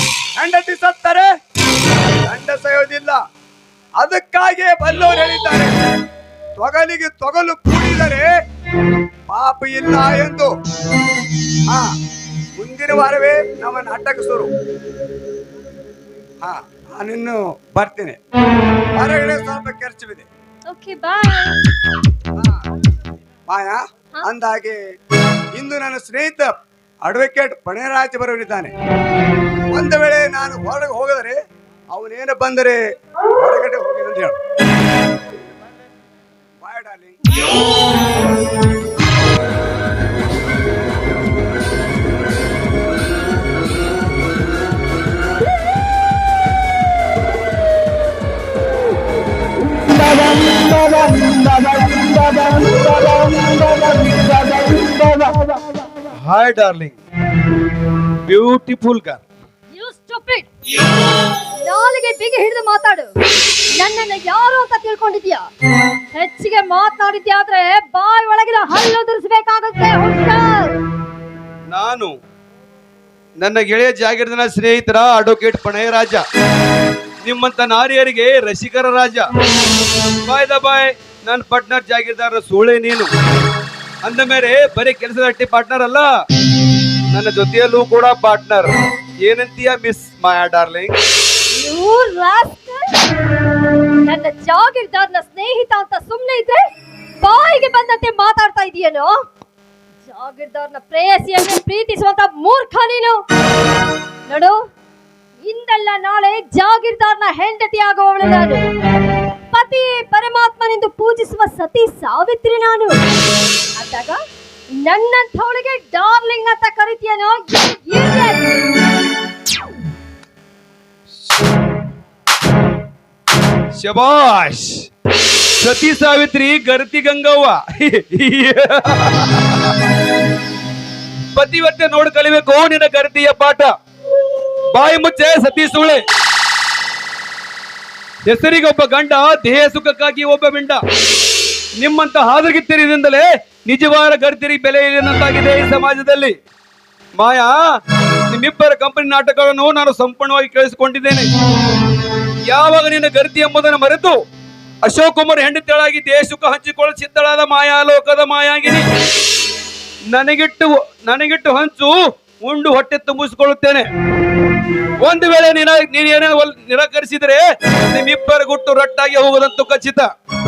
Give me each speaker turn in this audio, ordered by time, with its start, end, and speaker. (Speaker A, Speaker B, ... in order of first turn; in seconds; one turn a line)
Speaker A: 0.4-1.3
Speaker A: 2.2-3.2
Speaker A: 4.0-5.7
Speaker A: 6.6-8.3
Speaker A: 9.3-10.5
Speaker A: 12.6-14.5
Speaker A: 16.4-18.2
Speaker A: 18.9-20.3
Speaker B: 20.7-21.6
Speaker A: 22.3-22.6
Speaker A: 23.5-24.8
Speaker A: 25.6-26.5
Speaker A: 27.0-28.7
Speaker A: 29.7-31.4
Speaker A: 31.9-32.8
Speaker A: 33.4-34.4
Speaker A: 36.6-37.3
Speaker C: 56.2-57.0
Speaker C: 58.3-59.2
Speaker B: 59.7-60.5
Speaker B: 61.2-63.1
Speaker B: 63.7-65.4
Speaker B: 66.1-70.8
Speaker C: 71.7-72.1
Speaker C: 73.4-76.2
Speaker C: 77.2-79.2
Speaker C: 80.2-83.1
Speaker C: 84.0-86.1
Speaker C: 87.1-91.0
Speaker B: 91.5-92.9
Speaker B: 94.0-96.6
Speaker B: 97.2-99.1
Speaker B: 100.0-103.2
Speaker B: 104.3-104.6
Speaker B: 105.4-108.6
Speaker B: 109.5-112.9
Speaker B: 113.8-114.2
Speaker B: 114.8-118.5
Speaker C: 123.7-124.8
Speaker C: 125.6-129.9
Speaker C: 131.3-133.7
Speaker C: 134.7-136.0
Speaker C: 138.2-140.8
Speaker C: 141.8-146.4
Speaker C: 147.2-147.6
Speaker C: 148.3-151.3
Speaker C: 152.5-154.2
Speaker C: 154.8-158.8
Speaker C: 160.1-163.9
Speaker C: 165.0-170.1